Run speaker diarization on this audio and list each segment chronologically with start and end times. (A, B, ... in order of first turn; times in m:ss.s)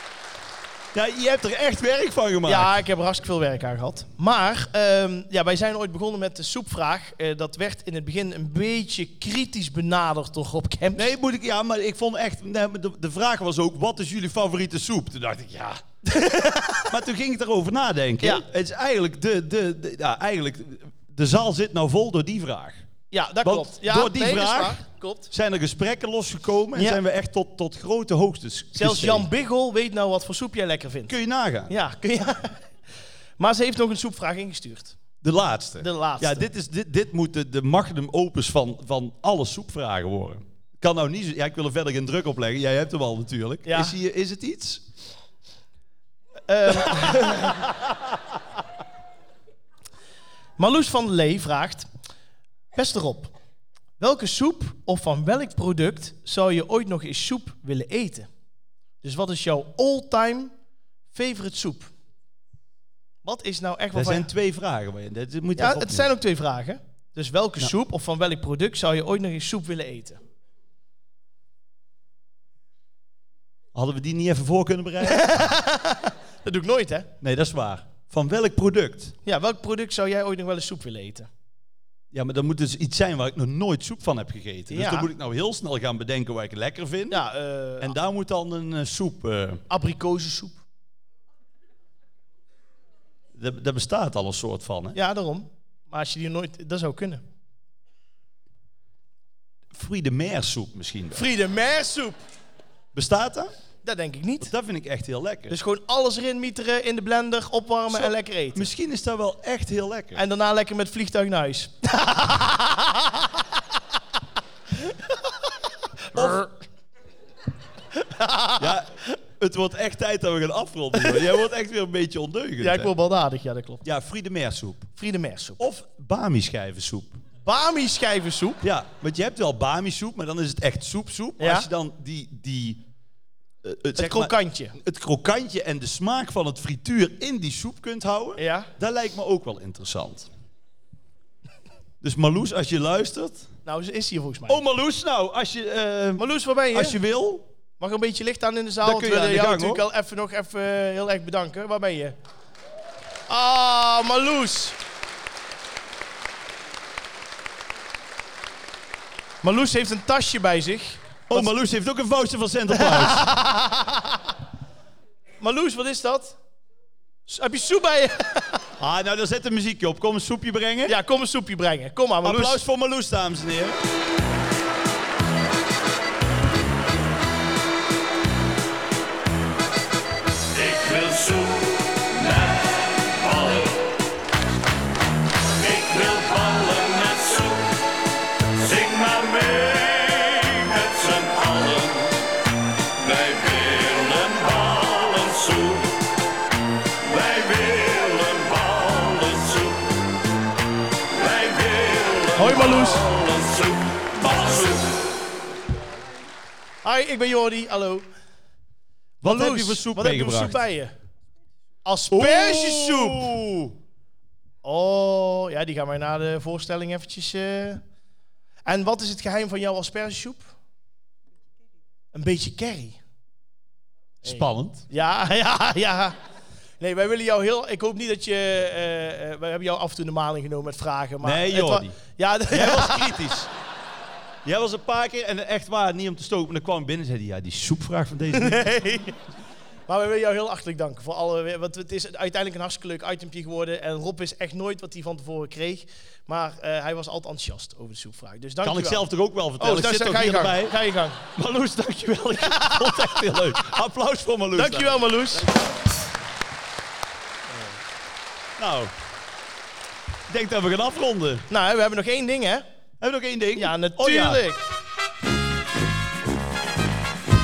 0:00.9-0:02.7 A
0:02.4-0:11.1 B
0:11.0-0:15.8 A
0:16.0-0:16.9 B
0:16.9-0:22.8 A
0:23.1-0:25.3 B
0:23.4-0:24.8 A
0:25.3-0:29.2 A
0:28.7-0:31.1 B
0:31.1-0:31.7 A
0:31.7-0:32.6 B
0:33.4-0:35.0 B
0:35.2-0:44.8 A
0:35.8-0:36.5 B
0:43.6-0:43.9 B
0:46.5-0:47.6 B
0:50.6-0:51.9 B
0:52.7-0:53.3 B
0:54.0-0:58.3 B
0:59.0-1:00.5 B
1:01.1-1:01.9 B
1:03.2-1:04.3 B
1:03.9-1:06.1 A
1:05.6-1:10.2 B
1:13.7-1:15.5 A
1:15.0-1:17.1 B
1:17.2-1:19.1 A
1:19.2-1:21.3 B
1:22.1-1:27.2 A
1:24.7-1:25.1 B
1:27.1-1:27.9 B
1:27.8-1:29.6 A
1:29.7-1:30.6 B
1:33.4-1:35.0 A
1:34.9-1:37.2 B
1:39.7-1:41.2 A
1:41.1-1:42.2 B
1:42.9-1:43.5 A
1:43.8-1:44.5 B
1:44.4-1:45.6 A
1:45.5-1:48.7 B
1:47.9-1:50.2 A
1:50.1-1:53.1 B
1:56.1-1:56.5 A
1:56.2-1:56.5 B
1:58.0-1:58.7 B
1:58.6-1:58.9 A
1:59.4-2:02.9 A
2:01.0-2:01.4 B
2:02.6-2:03.8 B
2:03.8-2:04.9 A
2:05.0-2:05.6 B
2:05.6-2:07.2 A
2:07.4-2:08.6 B
2:08.6-2:12.8 A
2:11.4-2:11.7 B
2:13.6-2:20.3 A
2:14.0-2:14.7 B
2:18.4-2:18.7 B
2:22.0-2:23.5 A
2:23.6-2:24.6 B
2:24.5-2:27.4 A
2:26.2-2:27.0 B
2:27.8-2:32.2 B
2:28.8-2:29.8 A
2:33.3-2:34.8 B
2:39.4-2:41.5 B
2:41.3-2:43.3 A
2:42.7-2:44.2 B
2:45.4-2:46.4 B
2:47.3-2:48.6 B
2:48.8-2:50.9 A
2:50.9-2:52.6 B
2:52.2-2:53.8 A
3:00.5-3:03.8 C
3:05.6-3:07.8 C
3:08.6-3:12.2 C
3:13.0-3:16.0 C
3:17.0-3:19.9 C
3:21.1-3:25.0 C
3:22.4-3:23.0 B
3:26.8-3:28.0 B
3:29.2-3:30.9 B
3:29.2-3:30.6 A
3:31.8-3:33.3 B
3:32.1-3:33.8 A
3:34.6-3:37.8 B
3:38.6-3:40.5 B
3:42.1-3:43.0 B
3:44.2-3:44.8 A
3:44.2-3:46.2 B
3:46.8-3:53.2 B
3:51.2-3:52.0 A
3:52.5-3:53.5 A
3:54.4-3:58.6 A
3:58.3-3:59.2 B
3:59.9-4:09.1 B
4:08.6-4:10.7 A
4:09.6-4:11.2 B
4:11.3-4:15.6 A
4:12.4-4:13.2 B
4:14.5-4:15.5 B
4:18.6-4:18.9 A
4:20.3-4:21.4 A
4:21.5-4:22.6 B
4:23.0-4:24.4 A
4:23.6-4:24.6 B